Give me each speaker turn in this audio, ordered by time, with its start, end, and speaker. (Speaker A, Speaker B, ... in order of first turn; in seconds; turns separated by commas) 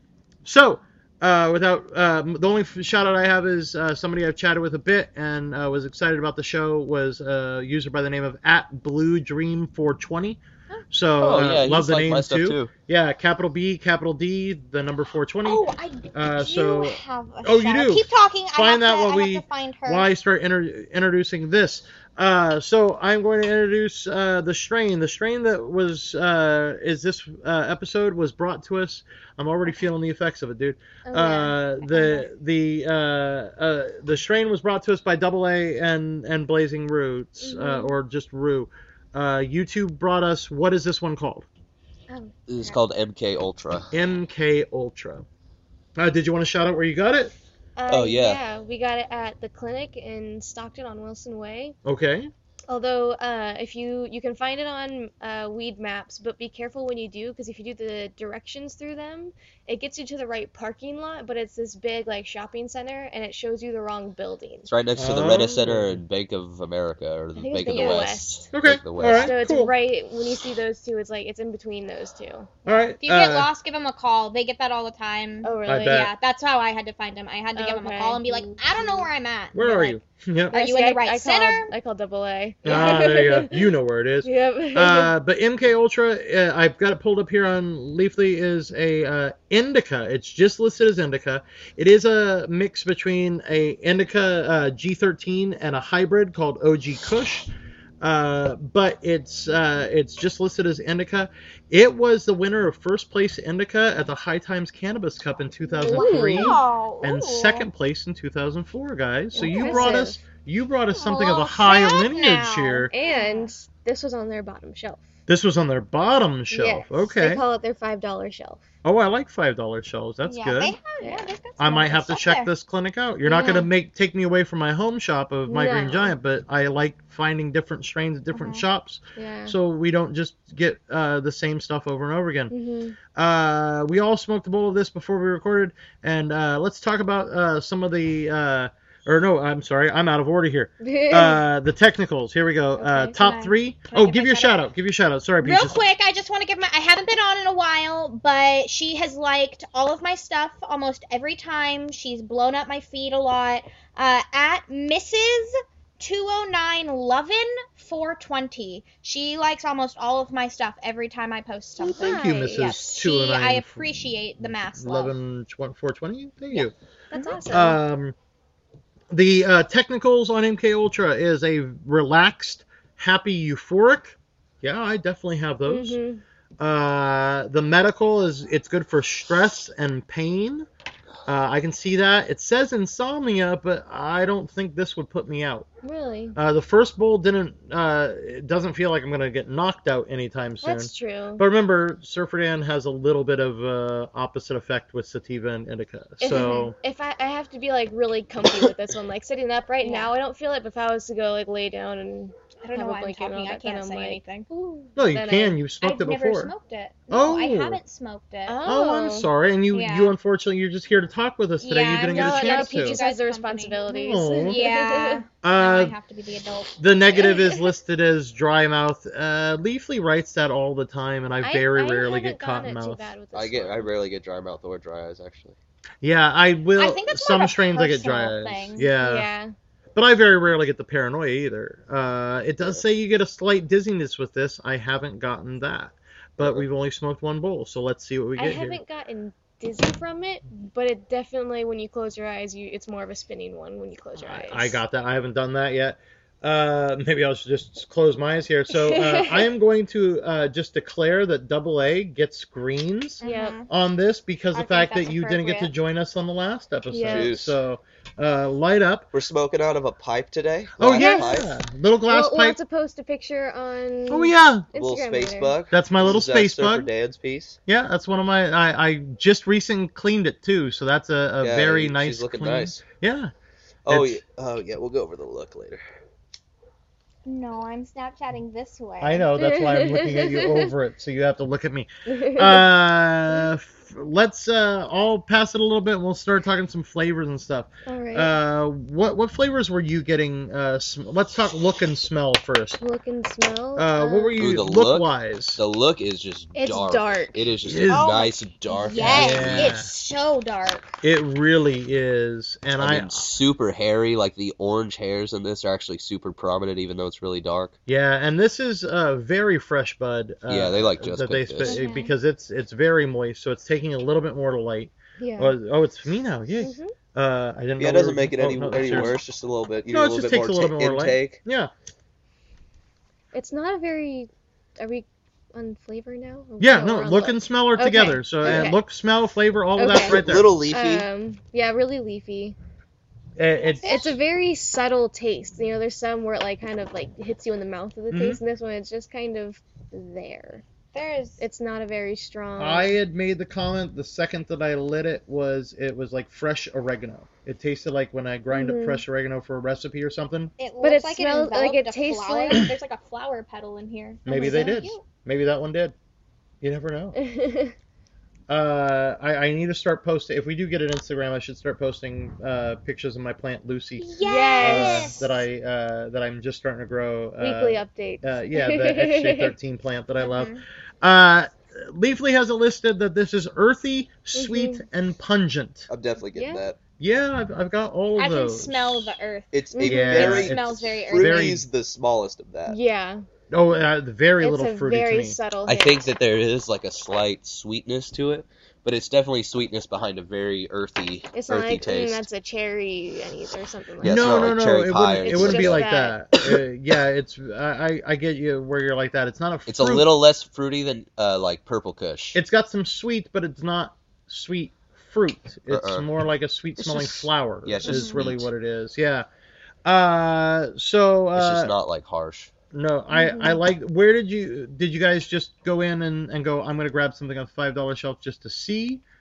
Speaker A: 0.5-41.5, Speaker B: 11.2-12.7, Speaker C: 15.4-20.1, Speaker D: 31.1-32.2, Speaker D: 37.4-38.0, Speaker D: 42.1-42.8, Speaker B: 42.5-43.9, Speaker A: 43.9-45.3, Speaker A: 46.0-47.3, Speaker D: 47.8-51.8, Speaker B: 47.9-48.4, Speaker A: 51.9-52.3, Speaker D: 52.7-64.7, Speaker B: 64.7-69.3, Speaker A: 65.0-66.0, Speaker D: 67.4-68.5, Speaker C: 67.7-68.1, Speaker A: 68.5-69.7, Speaker D: 69.1-72.5, Speaker A: 72.7-73.5, Speaker C: 73.0-80.0, Speaker D: 75.4-76.0, Speaker A: 75.7-76.1, Speaker D: 77.6-79.1, Speaker A: 79.5-80.5, Speaker C: 80.5-81.7, Speaker D: 80.5-83.7, Speaker A: 82.7-97.5, Speaker D: 84.2-85.1, Speaker A: 98.0-112.9, Speaker C: 105.8-107.7, Speaker D: 105.8-106.6, Speaker D: 109.3-110.2, Speaker C: 109.4-110.0, Speaker C: 110.9-113.5, Speaker D: 112.9-115.0, Speaker A: 115.3-117.4, Speaker D: 116.5-118.6, Speaker A: 118.8-120.8, Speaker C: 120.2-122.5, Speaker D: 121.0-121.3, Speaker A: 121.6-132.5, Speaker D: 123.2-123.7, Speaker D: 125.5-126.2, Speaker C: 128.3-128.7, Speaker D: 129.2-129.6, Speaker D: 132.5-133.0, Speaker A: 133.2-145.8, Speaker D: 140.8-141.4, Speaker D: 142.8-143.2, Speaker C: 143.1-144.7, Speaker C: 145.4-165.2, Speaker D: 161.8-162.6, Speaker A: 162.0-163.8, Speaker A: 164.5-166.7, Speaker C: 166.5-167.6, Speaker D: 167.1-167.8, Speaker A: 167.5-168.2, Speaker A: 169.1-176.0, Speaker D: 175.7-176.2, Speaker A: 176.6-180.7, Speaker A: 181.3-185.7, Speaker D: 185.8-186.4, Speaker A: 186.4-196.8, Speaker D: 190.6-191.4, Speaker D: 196.2-205.6, Speaker C: 199.8-200.1, Speaker C: 202.6-204.5, Speaker A: 205.0-206.5, Speaker C: 205.8-208.6, Speaker A: 207.1-207.8, Speaker D: 208.5-209.3, Speaker A: 208.7-213.0, Speaker C: 209.7-210.2, Speaker C: 211.6-213.9, Speaker D: 212.1-215.2, Speaker A: 213.9-214.6, Speaker C: 214.4-216.8, Speaker A: 215.4-216.0, Speaker A: 216.8-223.1, Speaker D: 221.4-223.9, Speaker B: 223.3-225.6, Speaker A: 226.0-229.3, Speaker C: 226.8-228.9, Speaker D: 229.0-229.5, Speaker A: 229.9-238.8, Speaker B: 236.4-236.7, Speaker D: 238.4-244.8, Speaker A: 244.2-259.1, Speaker D: 248.7-249.5, Speaker C: 253.2-253.7, Speaker D: 253.2-253.6, Speaker C: 254.5-255.7, Speaker D: 256.9-257.3, Speaker B: 257.1-257.6, Speaker B: 259.1-261.5, Speaker A: 260.8-262.6, Speaker D: 260.9-261.4, Speaker D: 262.1-265.6, Speaker A: 264.1-264.7, Speaker B: 264.8-267.6, Speaker A: 265.7-266.9, Speaker A: 267.7-273.3, Speaker B: 271.4-272.8, Speaker B: 273.9-275.8, Speaker A: 273.9-274.2, Speaker C: 277.2-279.3, Speaker A: 279.0-292.8, Speaker D: 279.4-280.7, Speaker D: 282.1-282.7, Speaker D: 287.9-288.3, Speaker D: 292.8-294.4, Speaker A: 293.8-295.6, Speaker B: 294.4-299.8, Speaker D: 296.6-297.5, Speaker A: 297.6-298.1, Speaker C: 297.9-300.9, Speaker A: 299.0-299.9, Speaker A: 301.0-303.2, Speaker B: 302.8-307.8, Speaker A: 307.9-319.2, Speaker B: 310.5-311.8, Speaker C: 311.6-312.1, Speaker D: 311.7-312.1, Speaker D: 315.2-315.6, Speaker D: 316.6-316.9, Speaker B: 317.8-321.4, Speaker A: 319.9-321.7, Speaker D: 323.3-328.8, Speaker A: 326.6-330.5, Speaker B: 328.4-328.7, Speaker D: 329.8-332.6, Speaker B: 329.9-331.1, Speaker A: 333.4-334.1, Speaker C: 333.6-334.1, Speaker D: 333.8-340.6, Speaker A: 338.1-338.4, Speaker C: 340.9-341.4, Speaker D: 341.4-343.0, Speaker A: 342.6-350.5, Speaker D: 348.5-349.0, Speaker C: 350.6-355.1, Speaker D: 350.8-352.7, Speaker A: 354.3-355.9, Speaker D: 354.3-354.8, Speaker A: 356.6-357.2, Speaker D: 357.1-357.7, Speaker A: 358.5-364.1, Speaker C: 364.0-365.4, Speaker D: 364.2-365.2, Speaker A: 364.6-375.9, Speaker D: 367.4-369.5, Speaker C: 370.2-370.6, Speaker D: 374.3-374.8, Speaker B: 375.9-376.8, Speaker D: 376.3-376.6, Speaker A: 377.0-379.1, Speaker C: 378.2-379.5, Speaker B: 379.5-382.8, Speaker D: 379.7-380.4, Speaker A: 379.8-381.7, Speaker C: 380.1-381.6, Speaker D: 382.7-383.2, Speaker A: 383.5-385.4, Speaker D: 384.4-386.1, Speaker B: 385.7-392.3, Speaker D: 391.3-394.6, Speaker B: 394.0-395.9, Speaker A: 394.0-400.1, Speaker D: 395.2-396.2, Speaker B: 399.7-402.4, Speaker A: 402.4-409.3, Speaker B: 405.7-406.1, Speaker B: 406.8-408.5, Speaker C: 407.8-408.2, Speaker A: 409.9-411.7, Speaker B: 411.4-412.5, Speaker A: 412.7-419.0, Speaker D: 413.1-413.6